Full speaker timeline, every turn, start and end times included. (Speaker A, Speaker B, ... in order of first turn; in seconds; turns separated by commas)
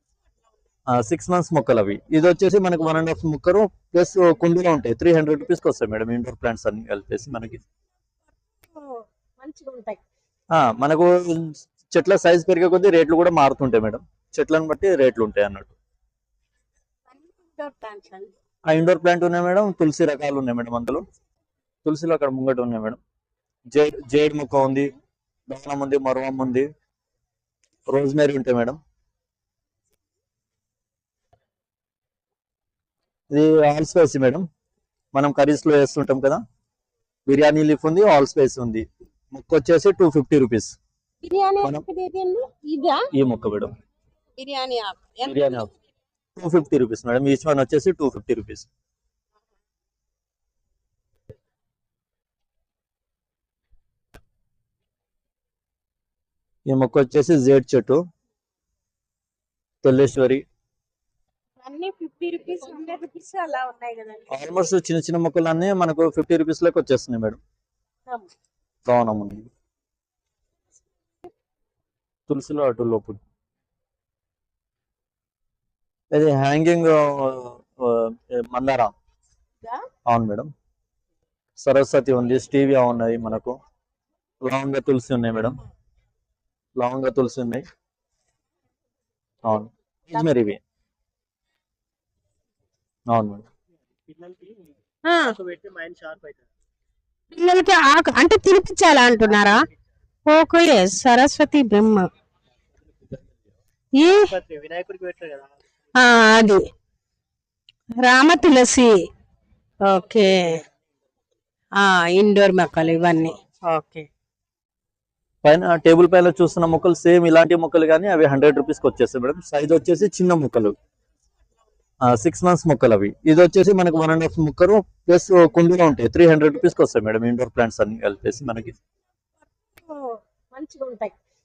Speaker A: 0.9-7.6, Speaker B: 8.7-10.0, Speaker A: 10.5-15.7, Speaker B: 17.1-18.3, Speaker A: 18.7-21.1, Speaker A: 21.9-23.0, Speaker A: 23.7-24.9, Speaker A: 25.5-26.7, Speaker A: 27.9-28.8, Speaker A: 33.3-34.5, Speaker A: 35.1-36.4, Speaker A: 37.3-40.8, Speaker B: 41.3-43.1, Speaker A: 43.1-43.7, Speaker B: 44.4-45.6, Speaker A: 45.3-45.7, Speaker A: 46.4-48.7, Speaker A: 56.7-58.0, Speaker A: 59.8-60.4, Speaker B: 61.6-64.3, Speaker A: 64.3-67.4, Speaker A: 68.9-69.5, Speaker A: 72.3-73.2, Speaker A: 76.1-78.9, Speaker A: 80.1-80.5, Speaker A: 81.6-83.6, Speaker A: 84.4-85.6, Speaker A: 86.8-87.7, Speaker A: 89.4-90.6, Speaker A: 93.1-93.5, Speaker B: 95.1-95.3, Speaker C: 95.4-96.4, Speaker B: 97.3-99.7, Speaker B: 100.3-102.1, Speaker B: 104.0-104.3, Speaker C: 104.2-105.5, Speaker B: 106.0-106.7, Speaker B: 108.0-108.9, Speaker B: 109.8-110.6, Speaker B: 111.8-114.1, Speaker A: 115.4-120.8, Speaker A: 122.0-128.8, Speaker B: 129.9-131.1